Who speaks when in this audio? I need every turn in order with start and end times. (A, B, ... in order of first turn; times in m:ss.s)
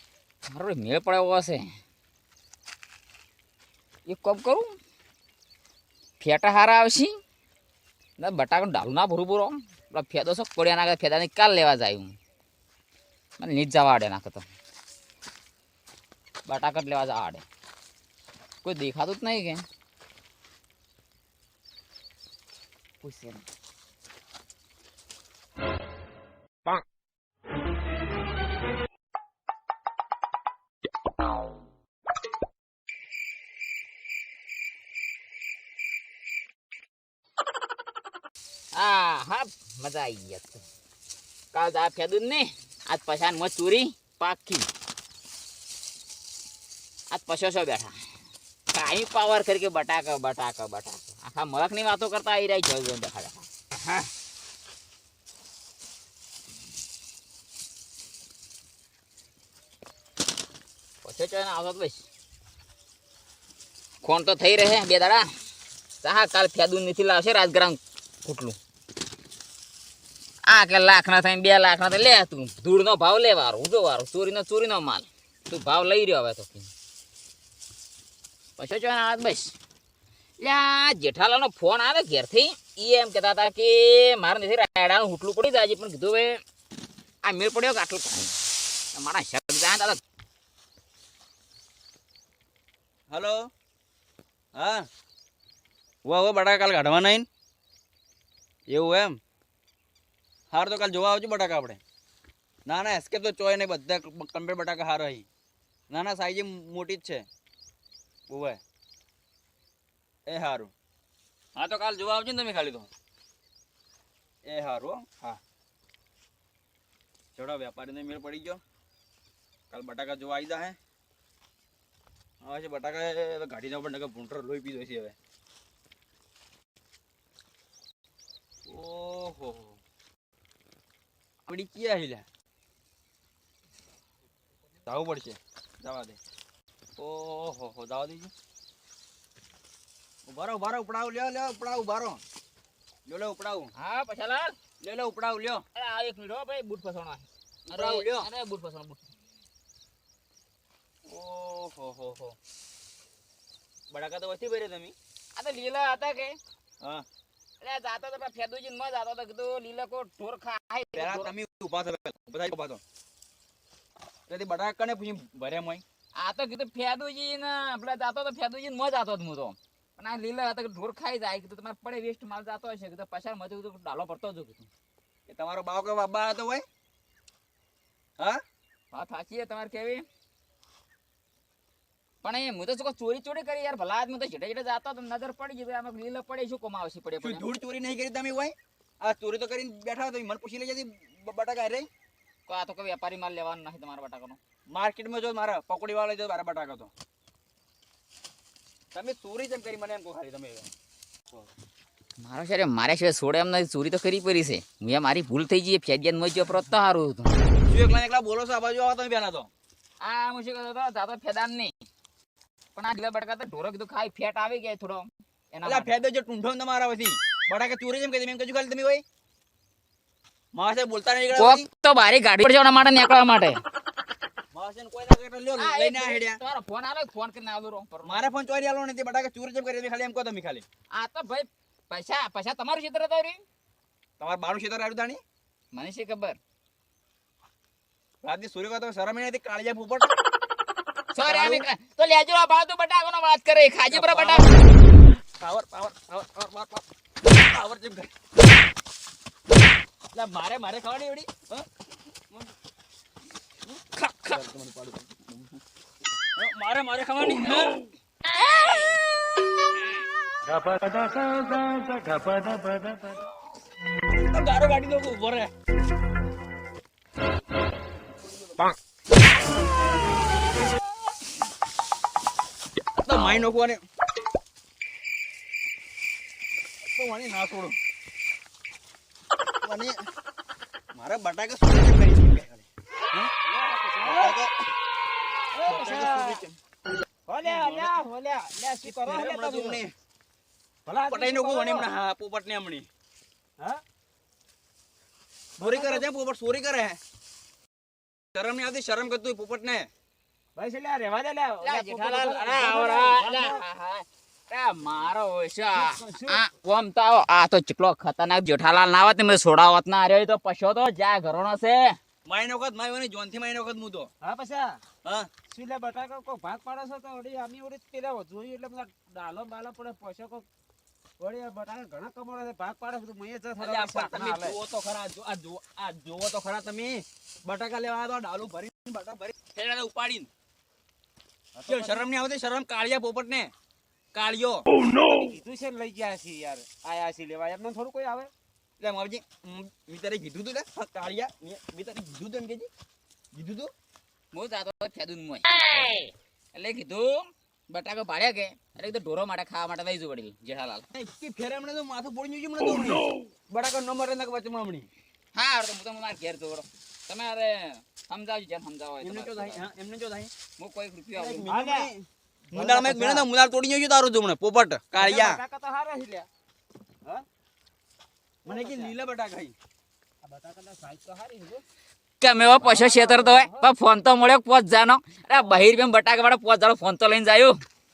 0:00.5-0:01.7 A
0:04.1-0:04.7 A
0:06.2-0:07.2 A
0:08.2-0:12.2 A
0:13.4-0:14.4 A
0:16.5-0:17.4 A
0:18.6-0:19.6 A
0:23.0-0:23.4 A
0:38.7-0:40.6 A
0:41.5-0:44.7 A
0:47.1-0:48.0 A
0:48.7-0:54.1 A
1:01.0-1:02.1 A
1:04.0-1:05.3 A
1:06.0-1:08.6 A
1:10.5-1:16.7 A
1:18.6-1:19.6 A
1:20.4-1:26.4 A
1:27.2-1:28.4 A
1:28.9-1:30.0 A
1:33.1-1:33.5 B
1:34.6-1:34.9 B
1:36.0-1:37.3 B
1:38.7-1:39.2 B
1:40.5-1:41.8 B
1:42.7-1:45.3 B
1:45.9-1:47.3 B
1:48.3-1:48.6 B
1:50.3-1:50.7 B
1:51.6-1:52.9 B
1:54.4-1:55.4 B
1:57.4-1:58.6 B
1:59.7-2:00.8 B
2:02.4-2:05.2 B
2:08.7-2:09.8 B
2:11.5-2:12.3 B
2:14.9-2:16.2 B
2:17.0-2:18.3 B
2:20.3-2:22.2 B
2:23.1-2:23.7 B
2:23.8-2:24.5 A
2:24.8-2:25.6 B
2:25.8-2:29.0 A
2:27.7-2:28.3 B
2:31.0-2:32.4 B
2:33.9-2:35.0 B
2:35.4-2:36.4 A
2:37.6-2:41.3 A
2:41.0-2:42.8 B
2:44.3-2:45.8 B
2:46.2-2:54.7 A
2:55.3-2:56.7 B
2:58.9-3:00.0 A
3:02.2-3:07.4 A
3:07.2-3:11.9 B
3:12.5-3:14.4 A
3:14.7-3:16.9 B
3:18.9-3:20.7 B
3:22.2-3:27.3 A
3:27.7-3:29.5 B
3:30.0-3:31.7 A
3:32.8-3:35.9 A
3:35.6-3:39.0 B
3:40.5-3:41.7 B
3:41.4-3:43.6 A
3:44.5-3:46.4 B
3:45.6-3:48.3 A
3:48.0-3:50.7 B
3:51.0-3:53.4 A
3:54.2-3:55.2 B
3:55.7-3:56.4 A
3:58.2-4:00.2 B
4:01.1-4:04.5 A
4:01.2-4:01.7 B
4:03.9-4:04.5 B
4:05.2-4:08.1 B
4:10.1-4:11.7 B
4:13.7-4:15.2 B
4:16.4-4:17.9 B
4:18.4-4:19.0 A
4:24.1-4:25.5 B
4:33.0-4:33.8 B
4:36.8-4:37.8 B
4:39.6-4:40.0 B
4:40.9-4:43.3 B
4:43.4-4:44.4 C
4:44.0-4:44.5 B
4:45.6-4:46.6 B
4:45.6-4:46.4 C
4:47.3-4:49.8 C
4:47.4-4:47.9 B
4:48.8-4:49.9 B
4:50.8-4:51.9 C
4:51.1-4:52.9 B
4:55.6-4:56.0 C
4:55.6-4:57.0 B
4:58.3-4:59.9 B
5:00.6-5:03.6 C
5:01.6-5:12.0 A
5:05.7-5:06.4 C
5:12.2-5:14.1 B
5:14.2-5:14.8 C
5:15.0-5:15.3 B
5:15.5-5:20.5 C
5:21.2-5:24.6 C
5:23.6-5:30.3 B
5:31.6-5:32.1 C
5:31.7-5:33.5 B
5:34.1-5:34.7 B
5:35.2-5:38.3 C
5:38.8-5:42.7 B
5:43.3-5:43.7 B
5:44.3-5:50.9 A
5:50.9-5:54.9 B
5:55.4-5:59.6 A
5:59.0-6:00.3 B
6:00.6-6:01.5 A
6:01.2-6:05.4 B
6:01.5-6:01.9 C
6:02.5-6:03.3 C
6:05.0-6:06.3 C
6:08.4-6:08.9 C
6:08.5-6:09.6 B
6:10.2-6:11.6 C
6:12.2-6:17.6 A
6:12.6-6:13.7 C